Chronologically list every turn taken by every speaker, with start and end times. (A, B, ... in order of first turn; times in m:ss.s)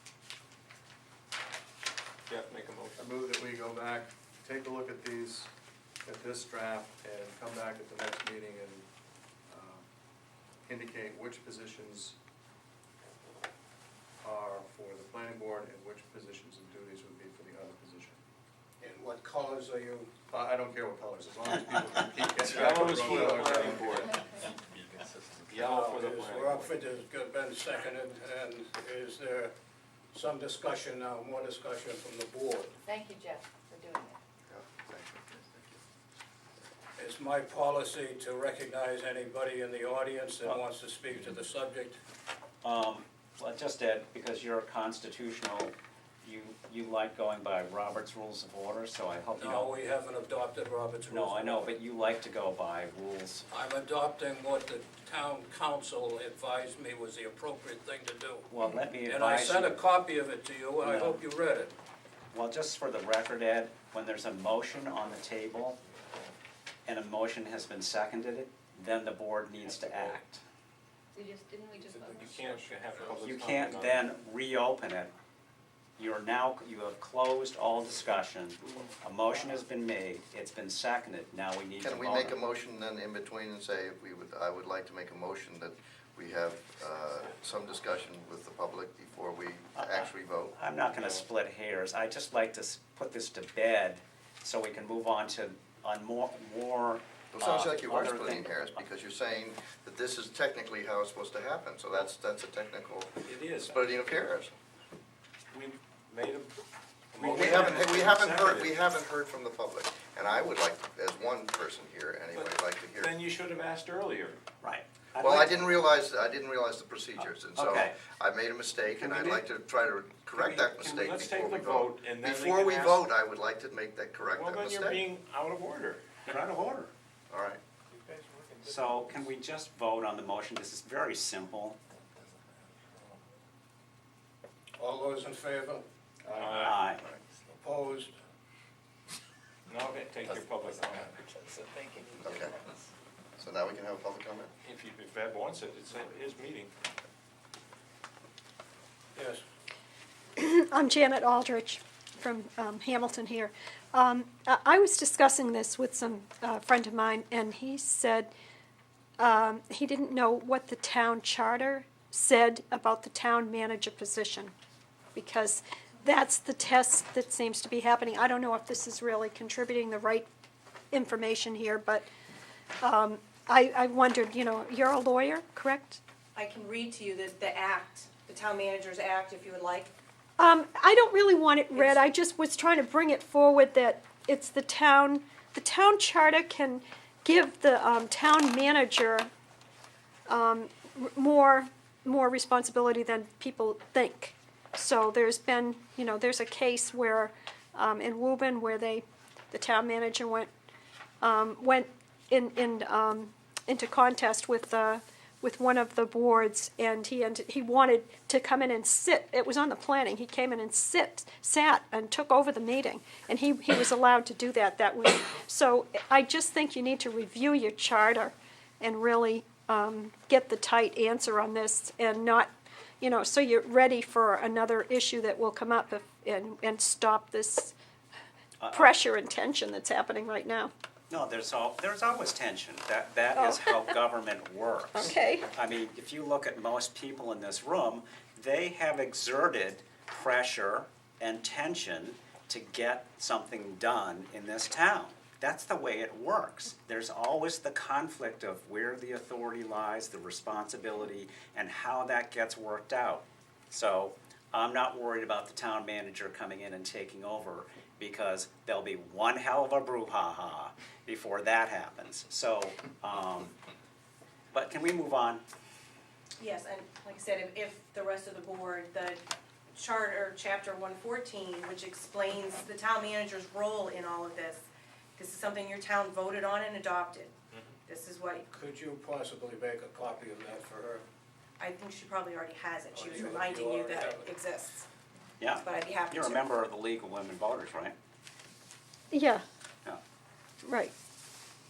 0:02.3-0:03.1 A
0:03.0-0:05.5 B
0:06.0-0:08.9 B
0:09.5-0:09.8 B
0:10.7-0:12.2 B
0:14.2-0:18.2 B
0:18.8-0:20.1 C
0:20.3-0:24.4 B
0:22.5-0:24.1 A
0:23.8-0:24.1 D
0:25.5-0:26.8 A
0:25.6-0:29.5 C
0:30.1-0:32.7 C
0:32.9-0:34.2 D
0:34.5-0:35.4 E
0:37.0-0:42.0 C
0:42.6-0:49.7 F
0:49.3-0:51.8 C
0:51.1-0:53.5 F
0:53.5-0:58.5 C
0:58.5-0:59.8 F
0:59.0-1:01.7 C
1:00.8-1:01.2 F
1:02.3-1:05.8 F
1:06.9-1:10.4 F
1:09.6-1:10.2 A
1:11.2-1:12.8 D
1:11.9-1:14.1 A
1:13.2-1:15.1 F
1:16.0-1:22.4 F
1:21.8-1:30.6 E
1:29.8-1:38.8 F
1:37.3-1:44.5 E
1:43.3-1:44.0 A
1:45.5-1:46.5 A
1:47.1-1:48.8 A
1:47.2-1:53.2 E
1:52.3-1:54.4 A
1:54.6-1:55.9 F
1:55.2-2:05.0 E
1:57.2-1:58.0 F
1:58.8-1:59.4 F
2:00.3-2:03.0 A
2:04.3-2:06.3 A
2:06.2-2:06.9 F
2:07.3-2:07.6 E
2:07.9-2:08.8 A
2:08.6-2:11.8 F
2:14.8-2:15.8 C
2:16.3-2:16.6 B
2:16.4-2:16.8 A
2:16.6-2:17.1 F
2:17.6-2:18.1 C
2:19.7-2:21.5 A
2:21.6-2:22.8 D
2:22.2-2:22.6 E
2:23.4-2:24.5 E
2:24.6-2:26.7 A
2:29.2-2:29.4 C
2:30.4-2:38.3 G
2:39.2-2:44.5 G
2:45.2-2:50.3 G
2:50.9-2:52.1 G
2:52.8-2:56.0 G
2:56.4-2:59.9 H
3:00.4-3:09.3 G
3:10.3-3:20.5 G
3:21.2-3:42.5 G
3:43.0-3:47.7 G
3:48.6-3:48.9 F
3:48.7-3:50.7 G
3:51.1-4:23.5 F
3:53.4-3:54.0 G
3:54.9-3:55.5 G
4:24.5-4:25.4 F
4:26.4-4:29.2 H
4:29.8-4:37.3 H
4:37.9-4:38.4 H
4:38.5-4:41.0 C
4:41.6-4:44.9 H
4:42.9-4:44.2 C
4:45.4-4:48.0 F
4:45.6-4:46.4 H
4:49.1-4:49.4 G
4:50.6-4:50.9 G